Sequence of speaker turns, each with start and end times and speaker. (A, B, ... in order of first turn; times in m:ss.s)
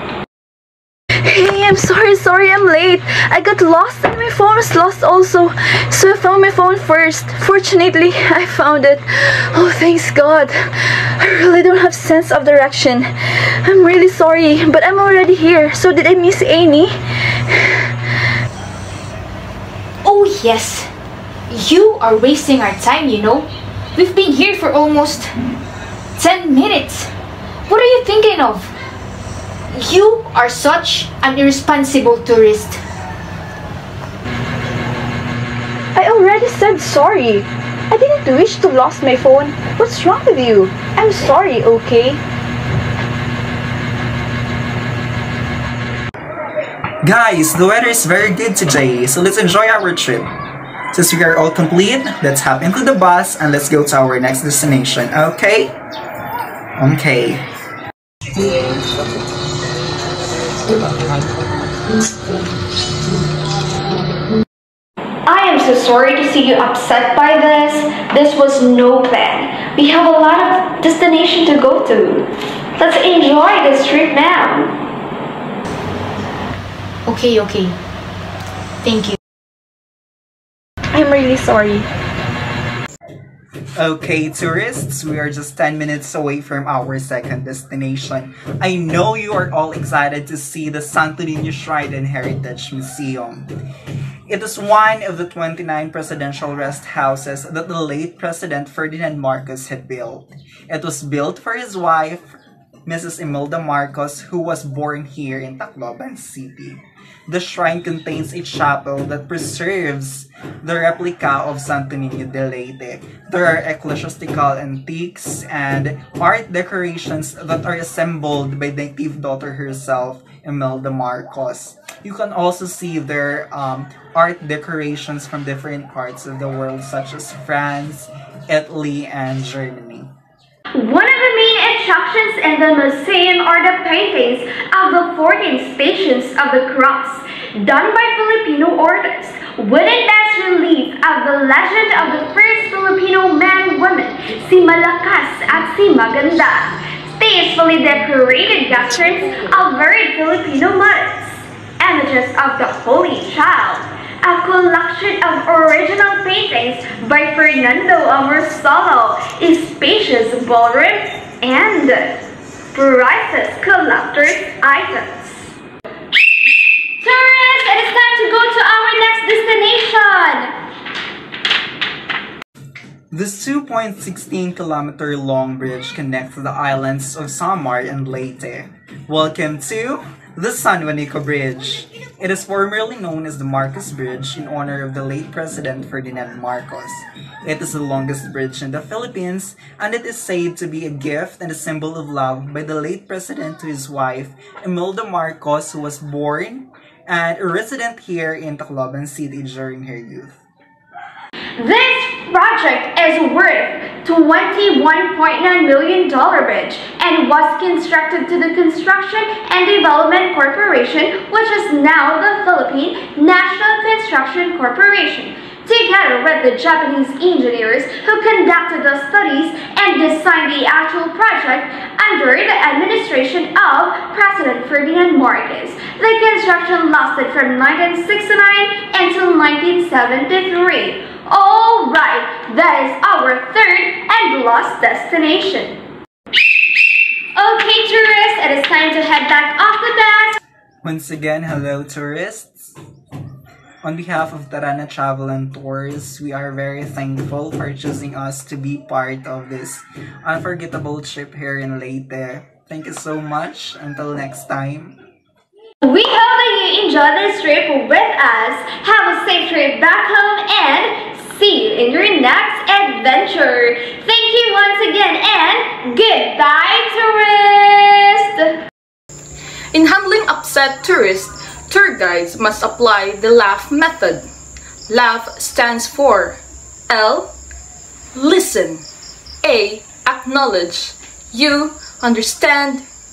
0:01.2-0:16.9 A
0:17.5-0:17.9 A
0:20.0-0:20.9 B
0:21.5-0:25.3 B
0:26.2-0:27.1 B
0:27.7-0:28.7 B
0:29.7-0:32.8 B
0:35.9-0:42.2 A
0:47.0-0:50.3 C
0:50.9-0:55.7 C
0:56.8-0:57.4 C
1:05.2-1:14.7 D
1:17.0-1:17.8 B
1:18.8-1:19.2 B
1:20.9-1:21.9 B
1:23.8-1:33.5 C
1:34.3-2:10.1 C
2:10.7-2:45.6 D
2:47.0-2:50.5 D
2:53.1-3:20.4 C
3:21.6-3:55.8 D
3:57.3-4:00.4 D
4:00.8-4:02.7 C
4:03.8-4:15.0 C
4:15.8-4:28.5 D
4:29.7-4:34.3 E
4:34.9-4:36.4 E
4:36.9-4:37.3 E
4:38.1-4:38.8 E
4:39.4-4:42.8 E